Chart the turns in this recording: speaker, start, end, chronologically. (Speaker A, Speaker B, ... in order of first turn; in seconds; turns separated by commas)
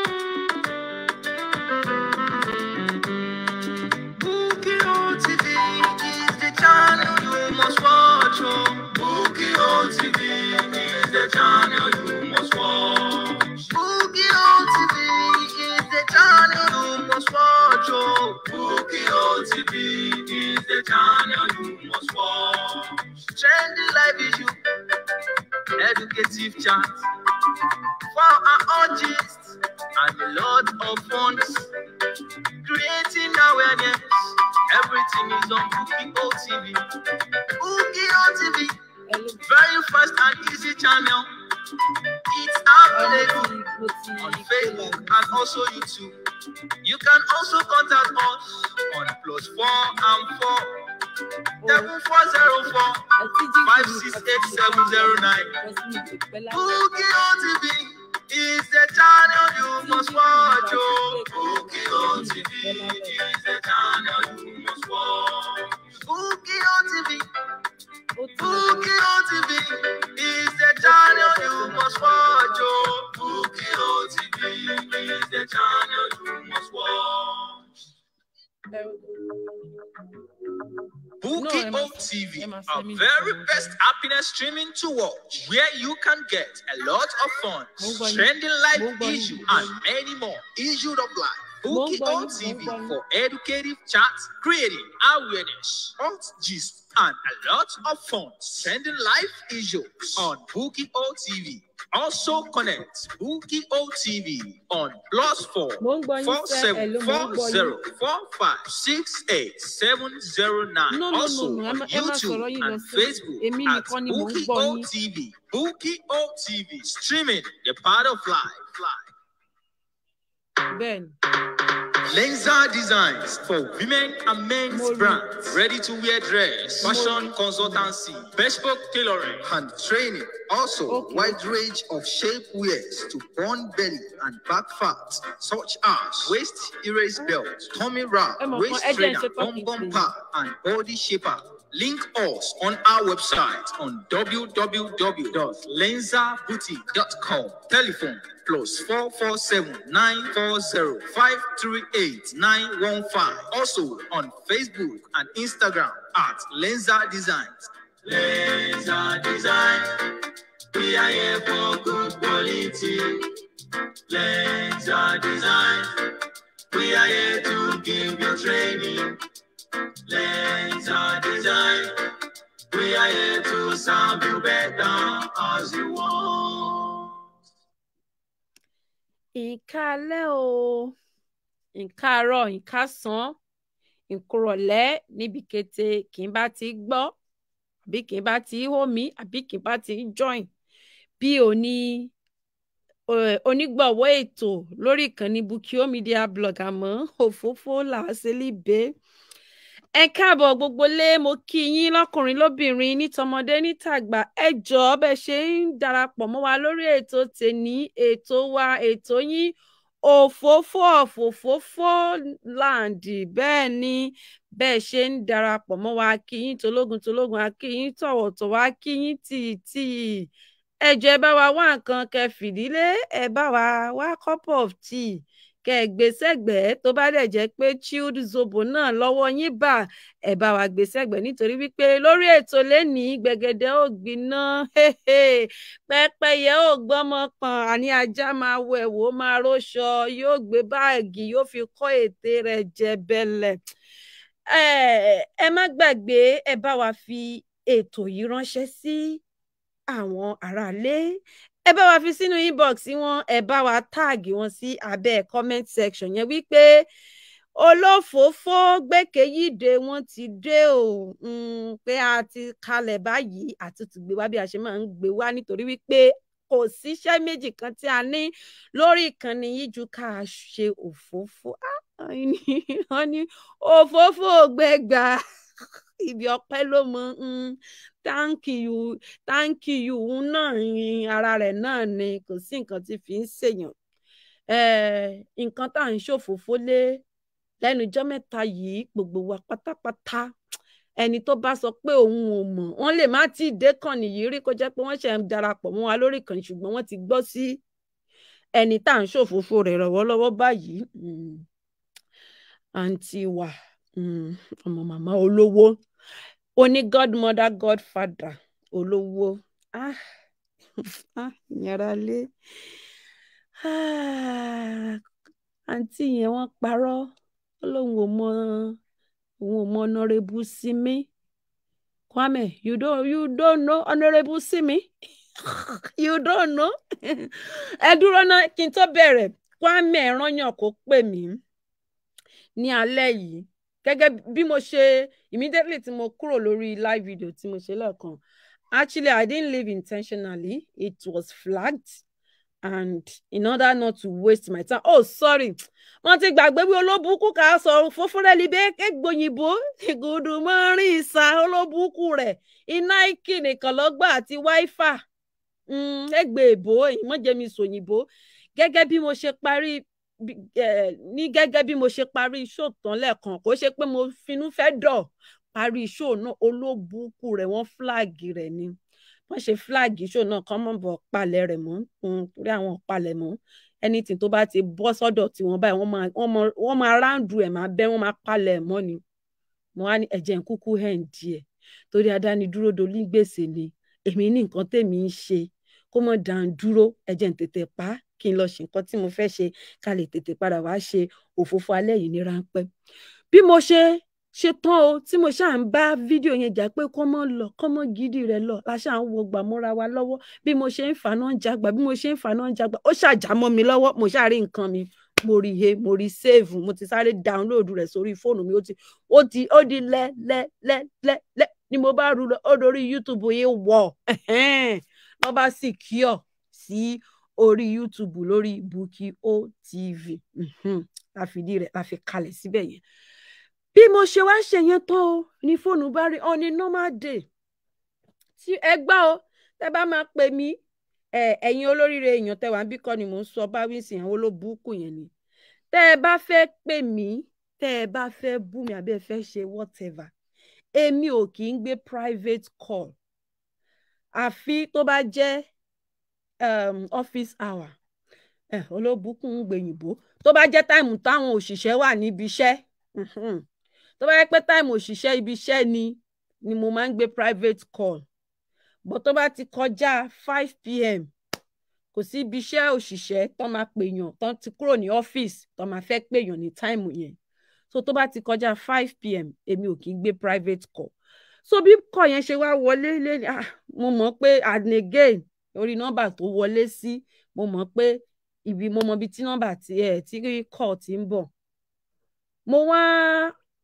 Speaker A: 0.3-0.6, Speaker A: 1.5-24.6, Speaker A: 25.8-36.8, Speaker A: 37.6-38.8, Speaker B: 39.1-39.4, Speaker A: 39.4-41.3, Speaker A: 42.3-43.5, Speaker B: 42.9-45.4, Speaker A: 44.2-46.2, Speaker A: 46.8-50.7, Speaker B: 51.6-52.0, Speaker A: 51.7-53.1, Speaker B: 53.1-56.9, Speaker A: 53.6-55.6, Speaker A: 56.5-67.3, Speaker B: 59.8-63.2, Speaker B: 68.2-68.9, Speaker A: 68.4-77.7, Speaker B: 70.8-72.9, Speaker A: 81.2-119.0, Speaker B: 81.4-83.8, Speaker B: 87.8-89.8, Speaker B: 91.7-93.0, Speaker B: 105.8-107.8, Speaker B: 110.9-114.9, Speaker B: 120.7-121.2, Speaker A: 122.1-163.3, Speaker B: 124.7-125.3, Speaker B: 126.8-127.8, Speaker B: 130.9-131.4, Speaker B: 138.4-140.1, Speaker A: 164.1-169.2, Speaker A: 170.1-172.0, Speaker A: 172.7-177.1, Speaker B: 179.3-181.0, Speaker B: 181.8-183.4, Speaker B: 184.1-187.1, Speaker B: 187.9-190.5, Speaker B: 191.2-192.1, Speaker B: 193.1-198.9, Speaker B: 199.9-220.3, Speaker B: 220.8-243.6, Speaker B: 244.5-249.2, Speaker B: 249.9-256.9, Speaker B: 257.6-275.2, Speaker B: 276.0-283.8, Speaker B: 284.5-287.0, Speaker B: 287.6-290.3, Speaker B: 291.0-297.6, Speaker B: 298.6-301.5, Speaker B: 302.8-305.8, Speaker B: 306.6-310.0, Speaker B: 311.2-312.3, Speaker B: 313.6-315.0, Speaker B: 315.7-317.1, Speaker B: 317.6-318.8, Speaker B: 319.4-321.1, Speaker B: 322.1-324.9, Speaker B: 325.4-331.4, Speaker B: 332.6-338.2, Speaker B: 338.7-342.0, Speaker B: 342.6-355.0, Speaker B: 355.7-368.8, Speaker B: 369.3-379.0, Speaker B: 379.8-392.7, Speaker B: 393.3-422.8, Speaker B: 423.8-427.3, Speaker B: 428.4-430.6, Speaker B: 431.1-435.1, Speaker B: 435.7-440.1, Speaker B: 440.8-443.0, Speaker B: 444.1-445.5, Speaker B: 446.4-447.8, Speaker B: 448.5-453.4, Speaker B: 454.0-458.1, Speaker B: 458.9-461.1, Speaker B: 461.9-467.2, Speaker B: 467.7-470.9, Speaker B: 471.4-481.3, Speaker B: 482.5-483.3